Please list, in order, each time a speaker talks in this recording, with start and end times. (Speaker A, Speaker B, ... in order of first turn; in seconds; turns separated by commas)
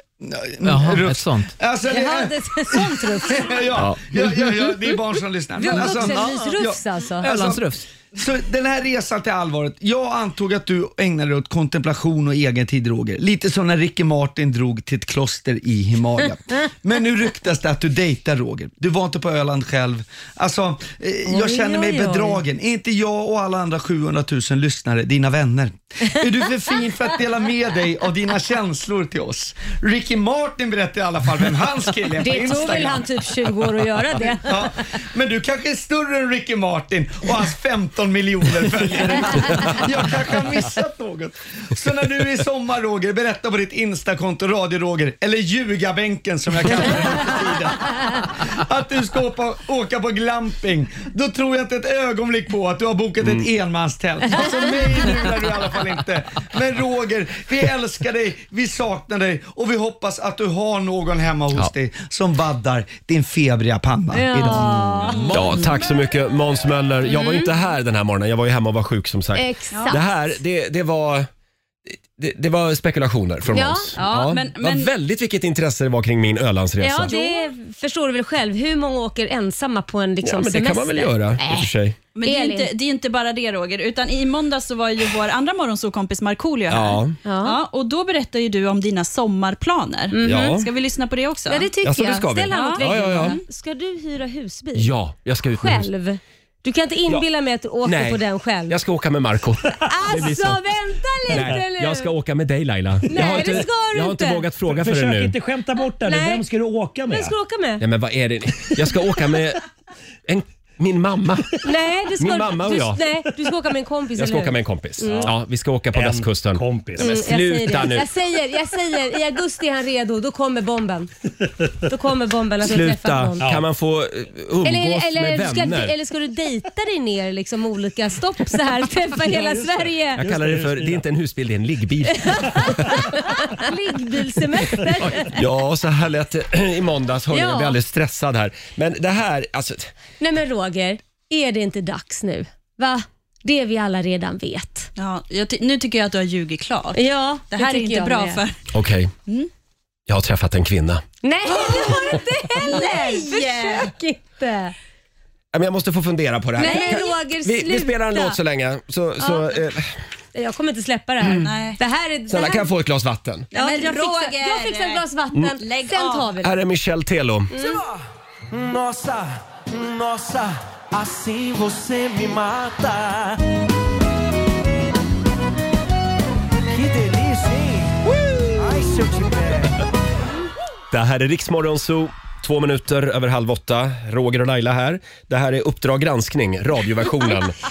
Speaker A: 0.2-33.1, Speaker B: 0.6-1.5, Speaker C: 1.9-3.6, Speaker C: 5.6-7.3, Speaker B: 5.8-6.4, Speaker B: 7.2-7.8, Speaker C: 21.2-22.4, Speaker C: 32.2-34.7, Speaker A: 34.3-65.0, Speaker C: 64.1-65.6, Speaker D: 65.1-65.7, Speaker E: 65.2-71.3, Speaker C: 67.1-67.5, Speaker C: 69.3-70.2, Speaker E: 71.9-77.1, Speaker C: 73.5-74.3, Speaker D: 74.0-74.9, Speaker C: 76.8-81.7, Speaker D: 77.0-77.5, Speaker E: 80.2-82.0, Speaker D: 82.2-91.7, Speaker C: 82.2-82.7, Speaker E: 86.7-87.2, Speaker C: 87.2-87.6, Speaker C: 90.1-90.5, Speaker E: 90.2-90.7, Speaker C: 91.5-94.9, Speaker E: 91.8-93.4, Speaker D: 92.5-93.4, Speaker E: 94.8-95.9, Speaker C: 95.5-98.8, Speaker E: 97.8-100.6, Speaker C: 99.8-102.1, Speaker E: 101.3-105.4, Speaker C: 103.1-104.5, Speaker B: 104.7-107.3, Speaker C: 105.8-106.5, Speaker C: 107.1-107.8, Speaker E: 107.8-109.6, Speaker E: 110.2-111.6, Speaker C: 111.6-115.3, Speaker E: 112.2-113.1, Speaker E: 114.2-118.1, Speaker B: 115.9-117.1, Speaker C: 117.0-121.1, Speaker C: 121.8-123.5, Speaker E: 122.6-126.0, Speaker C: 124.6-130.3, Speaker E: 130.1-133.1, Speaker B: 130.3-130.9, Speaker C: 132.1-135.4, Speaker E: 135.1-139.9, Speaker C: 137.3-137.8, Speaker C: 140.2-144.9, Speaker D: 145.0-148.6, Speaker C: 146.9-148.4, Speaker E: 148.7-149.1, Speaker E: 150.1-151.0, Speaker C: 151.2-154.7, Speaker D: 151.5-153.9, Speaker E: 155.5-159.9, Speaker C: 156.6-158.4, Speaker D: 156.6-157.0, Speaker C: 159.2-159.5, Speaker C: 160.3-162.7, Speaker E: 161.2-161.5, Speaker D: 161.4-161.8, Speaker E: 162.3-163.5, Speaker D: 163.5-165.0, Speaker C: 163.5-166.5, Speaker D: 165.6-166.3, Speaker E: 166.4-167.5, Speaker C: 167.5-167.8, Speaker B: 167.6-167.9, Speaker B: 168.5-173.4, Speaker B: 176.7-178.0, Speaker B: 178.5-179.8, Speaker E: 180.9-187.5